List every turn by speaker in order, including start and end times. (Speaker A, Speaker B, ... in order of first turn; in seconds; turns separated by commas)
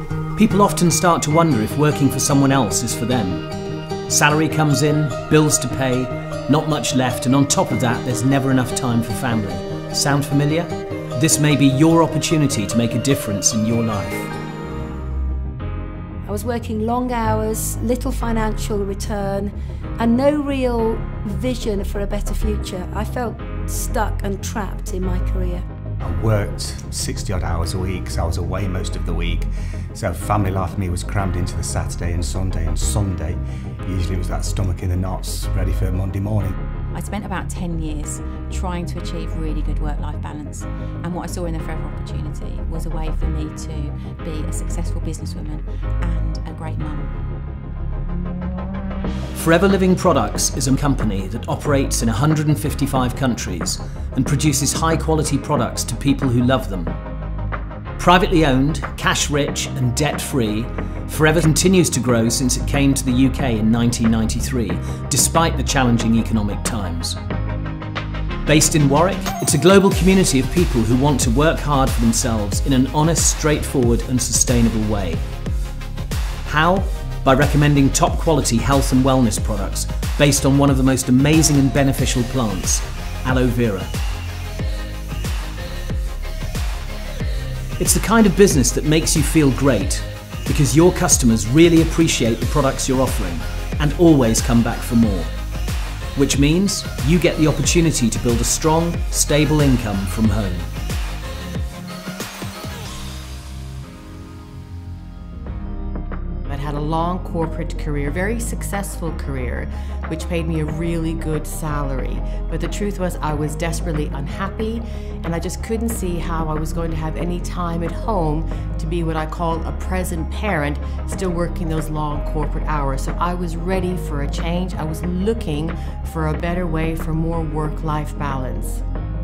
Speaker A: 0.4-3.5, Speaker A: 4.1-14.3, Speaker B: 16.2-25.7, Speaker C: 26.0-36.6, Speaker D: 36.9-47.1, Speaker A: 49.3-57.0, Speaker A: 58.0-67.2, Speaker A: 68.5-75.2, Speaker A: 76.5-83.9, Speaker A: 87.8-95.3, Speaker A: 96.2-100.7, Speaker E: 106.5-128.8